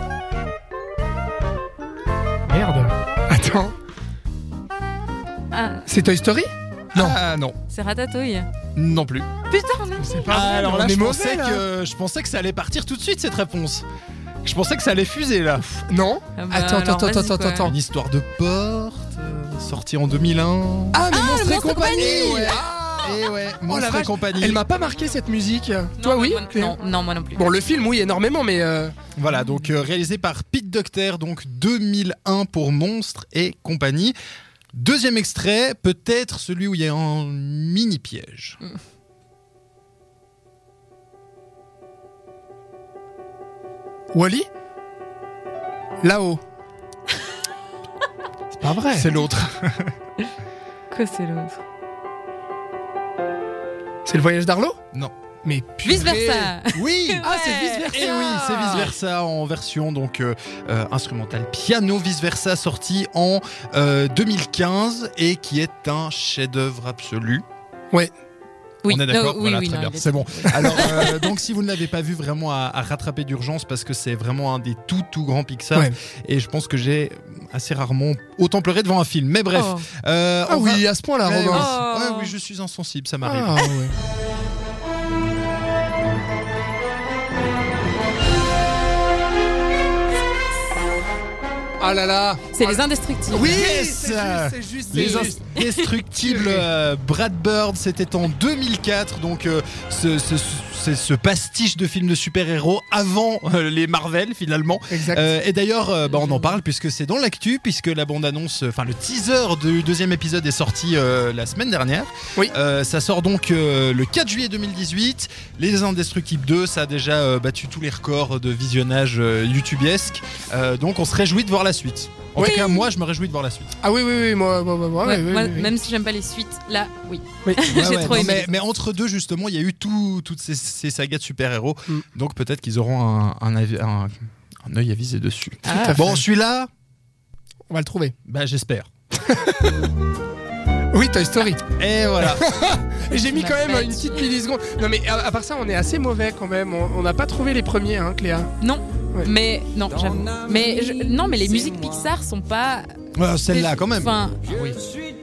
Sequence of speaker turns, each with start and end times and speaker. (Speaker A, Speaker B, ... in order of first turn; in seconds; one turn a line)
Speaker A: 2.5-3.7
Speaker B: 5.5-5.9
Speaker A: 5.9-7.2
Speaker C: 6.9-7.6
Speaker B: 7.7-8.5
Speaker C: 8.7-9.3
Speaker B: 9.5-10.5
Speaker A: 10.0-11.6
Speaker C: 10.3-13.8
Speaker C: 14.4-15.8
Speaker A: 15.9-17.7
Speaker B: 16.4-17.7
Speaker C: 17.6-24.6
Speaker A: 20.9-26.8
Speaker B: 21.1-22.5
Speaker B: 26.0-27.6
Speaker A: 27.3-28.9
Speaker C: 29.1-34.1
Speaker C: 34.7-38.6
Speaker A: 44.1-44.5
Speaker A: 46.0-46.4
Speaker A: 48.5-49.5
Speaker C: 49.1-49.9
Speaker B: 50.9-51.6
Speaker A: 54.0-54.8
Speaker A: 55.4-56.5
Speaker B: 55.8-58.9
Speaker C: 56.7-67.4
Speaker A: 57.2-58.9
Speaker B: 68.8-71.2
Speaker C: 68.9-83.7
Speaker B: 79.5-79.9
Speaker A: 80.5-81.7
Speaker B: 81.5-82.3
Speaker A: 83.2-83.9
Speaker A: 91.8-95.4
Speaker B: 92.5-93.6
Speaker C: 93.4-123.7
Speaker B: 94.9-95.9
Speaker A: 96.2-96.7
Speaker A: 104.9-105.3
Speaker B: 106.0-106.6
Speaker A: 122.4-122.8
Speaker A: 123.8-125.7
Speaker B: 125.0-128.5
Speaker A: 127.4-128.5
Speaker C: 127.7-136.7
Speaker B: 135.7-136.0
Speaker A: 135.7-136.2
Speaker A: 137.7-138.1
Speaker C: 138.3-138.9
Speaker A: 139.2-139.7
Speaker A: 140.9-141.6
Speaker C: 141.8-142.4
Speaker A: 142.2-148.5
Speaker B: 143.1-144.3
Speaker B: 148.6-152.9
Speaker C: 153.1-154.7
Speaker B: 153.5-154.4